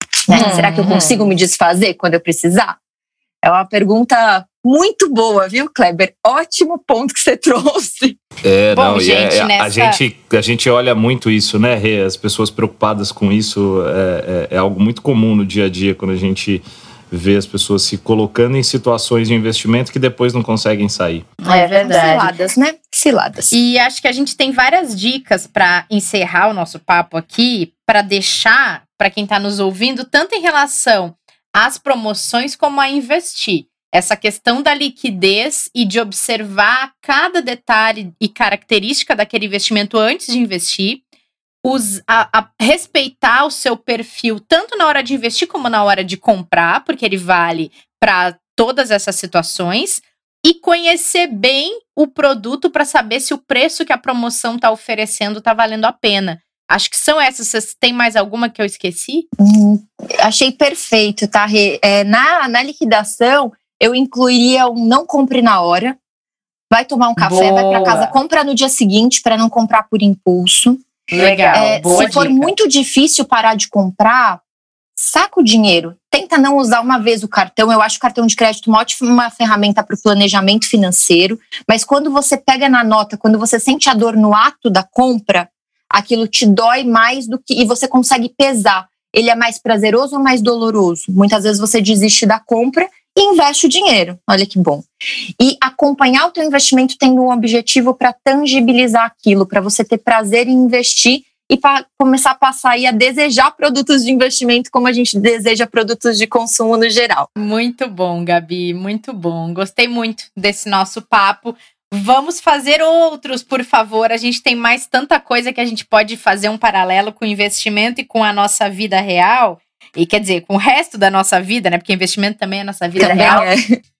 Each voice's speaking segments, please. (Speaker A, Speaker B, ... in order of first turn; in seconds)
Speaker A: 0.3-2.8, 3.4-8.2, 21.4-23.5, 59.4-66.0, 66.7-74.4, 75.0-94.8, 95.4-107.3, 123.0-123.6
Speaker B: 0.3-1.2, 8.7-10.0, 21.4-22.3, 23.5-41.0, 41.6-59.2, 67.2-68.1, 71.1-72.5, 107.3-123.5
Speaker C: 8.4-21.3